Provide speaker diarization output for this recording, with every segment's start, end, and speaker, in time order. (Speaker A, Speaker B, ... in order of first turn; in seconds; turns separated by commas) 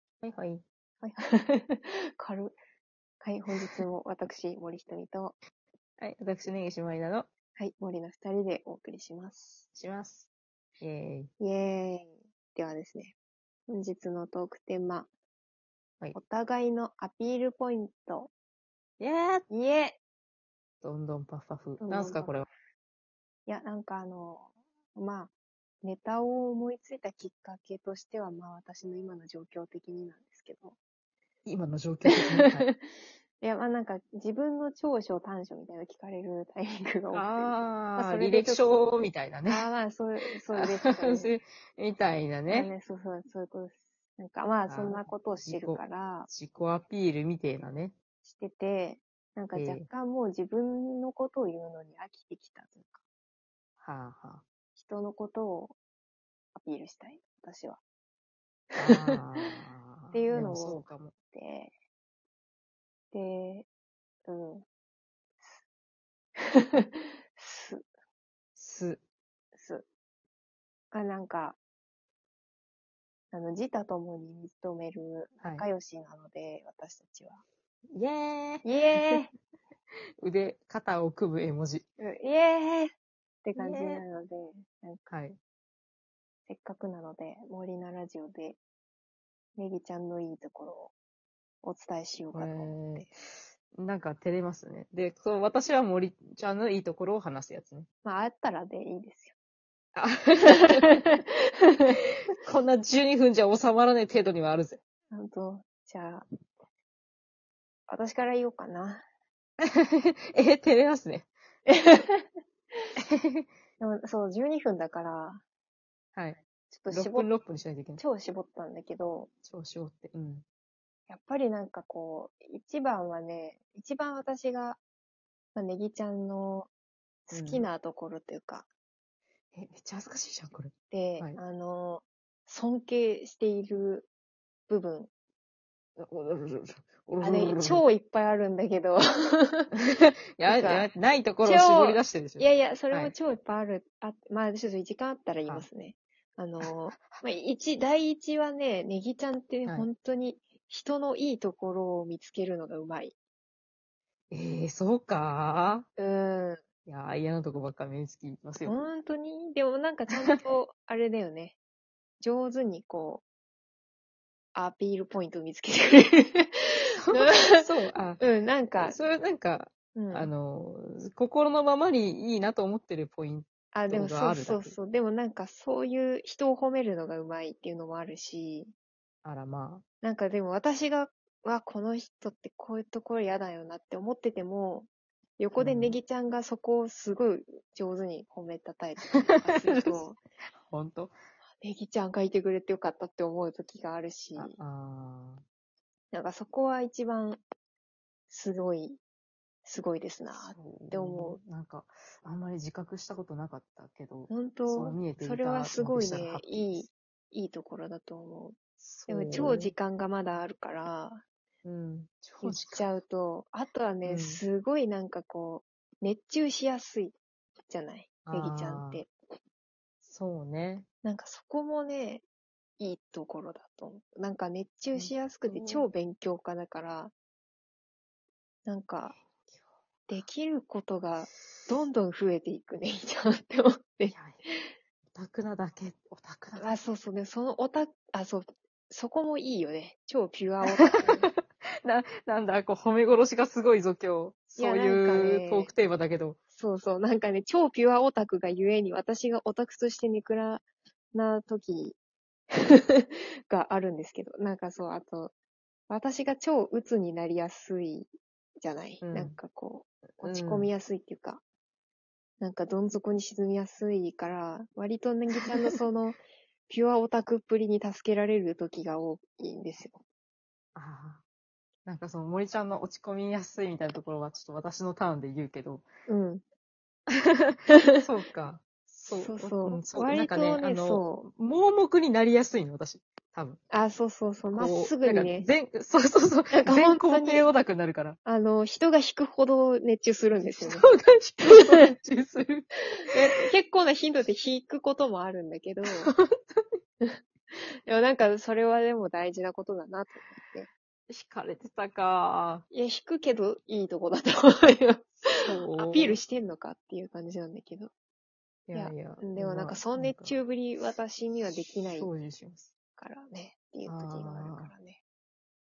Speaker A: 0.2-0.6, Speaker B: 1.0-2.5, Speaker B: 3.2-5.3, Speaker A: 6.0-7.3, Speaker B: 7.6-9.7, Speaker A: 9.7-10.3, Speaker A: 10.8-11.3, Speaker B: 11.4-13.1, Speaker B: 13.7-15.1, Speaker B: 16.1-18.3, Speaker A: 19.0-19.4, Speaker B: 19.5-20.0, Speaker A: 20.8-22.5, Speaker B: 21.8-22.4, Speaker B: 23.5-25.3, Speaker B: 25.8-30.8, Speaker A: 31.4-32.7, Speaker B: 32.1-32.5, Speaker B: 33.4-41.3, Speaker A: 37.1-39.7, Speaker A: 40.5-42.7, Speaker B: 42.5-46.3, Speaker A: 44.7-48.0, Speaker B: 48.2-53.0, Speaker A: 49.5-49.9, Speaker A: 53.8-54.4, Speaker B: 54.7-55.7, Speaker B: 56.5-57.8, Speaker B: 58.8-59.5, Speaker A: 58.8-61.1, Speaker B: 60.1-61.7, Speaker B: 63.1-63.6, Speaker B: 64.2-64.6, Speaker B: 66.4-67.8, Speaker A: 68.5-69.0, Speaker B: 69.5-69.8, Speaker B: 70.9-71.6, Speaker B: 73.3-77.4, Speaker A: 75.4-75.7, Speaker A: 77.9-79.2, Speaker B: 78.6-79.3, Speaker A: 80.2-81.8, Speaker B: 82.0-85.0, Speaker A: 83.5-84.0, Speaker A: 85.1-85.4, Speaker B: 86.5-88.6, Speaker B: 89.5-90.9, Speaker B: 91.6-93.1, Speaker A: 92.3-93.1, Speaker A: 93.7-97.9, Speaker B: 98.0-99.3, Speaker A: 100.0-101.1, Speaker B: 100.4-102.0, Speaker A: 102.4-104.8, Speaker B: 105.1-106.2, Speaker B: 107.9-109.0, Speaker A: 109.6-111.3, Speaker B: 111.7-112.3, Speaker A: 113.0-113.5, Speaker B: 113.8-115.4, Speaker A: 116.1-118.0, Speaker B: 116.7-117.3, Speaker B: 118.0-119.3, Speaker A: 119.4-120.4, Speaker B: 121.1-124.8, Speaker B: 125.5-126.7, Speaker B: 127.3-128.7, Speaker A: 127.3-127.7, Speaker A: 129.5-131.4, Speaker B: 130.9-134.1, Speaker B: 134.7-135.1, Speaker A: 136.0-137.8, Speaker B: 137.2-139.7, Speaker A: 139.8-143.1, Speaker B: 140.4-140.9, Speaker B: 141.4-153.1, Speaker A: 146.6-147.2, Speaker A: 154.3-155.9, Speaker B: 156.0-156.6, Speaker A: 156.8-158.8, Speaker B: 158.7-161.6, Speaker B: 162.2-163.2, Speaker B: 164.5-167.7, Speaker A: 167.0-168.2, Speaker B: 168.2-169.0, Speaker A: 168.8-174.7, Speaker B: 169.9-170.3, Speaker B: 173.7-178.7, Speaker A: 179.2-179.8, Speaker B: 180.0-184.9, Speaker B: 185.4-190.2, Speaker A: 185.6-186.0, Speaker A: 189.3-190.0, Speaker A: 190.6-191.1, Speaker B: 191.6-194.5, Speaker A: 194.3-195.4, Speaker B: 196.1-197.4, Speaker B: 198.3-199.0, Speaker B: 199.6-201.4, Speaker A: 200.3-206.9, Speaker B: 204.3-208.6, Speaker A: 208.8-209.7, Speaker B: 209.1-211.2, Speaker A: 211.6-212.8, Speaker B: 212.4-217.1, Speaker A: 214.0-214.4, Speaker B: 217.7-219.1, Speaker A: 218.2-219.0, Speaker A: 220.0-220.9, Speaker B: 221.0-222.2, Speaker B: 222.8-227.1, Speaker A: 224.9-225.9, Speaker B: 228.7-229.2, Speaker A: 229.1-230.2, Speaker B: 230.1-234.6, Speaker A: 234.1-234.4, Speaker A: 235.1-236.7, Speaker B: 236.6-241.3, Speaker A: 240.8-246.4, Speaker B: 244.6-245.7, Speaker B: 246.6-251.9, Speaker B: 252.6-255.3, Speaker B: 255.9-261.4, Speaker A: 259.0-259.4, Speaker A: 260.2-260.7, Speaker B: 262.4-270.0, Speaker A: 270.7-271.2, Speaker A: 271.9-275.9, Speaker B: 276.1-276.4, Speaker A: 277.1-283.6, Speaker B: 277.7-278.0, Speaker B: 279.1-281.3, Speaker B: 283.7-285.5, Speaker A: 284.5-288.2, Speaker B: 286.5-287.5, Speaker B: 288.2-290.9, Speaker A: 290.6-293.5, Speaker B: 291.4-291.8, Speaker B: 293.2-296.1, Speaker A: 295.9-296.8, Speaker B: 297.9-300.7, Speaker A: 301.1-302.6, Speaker B: 302.7-307.9, Speaker A: 305.2-306.2, Speaker A: 308.7-310.4, Speaker B: 308.7-312.1, Speaker A: 311.9-312.7, Speaker B: 312.9-315.0, Speaker A: 313.8-314.7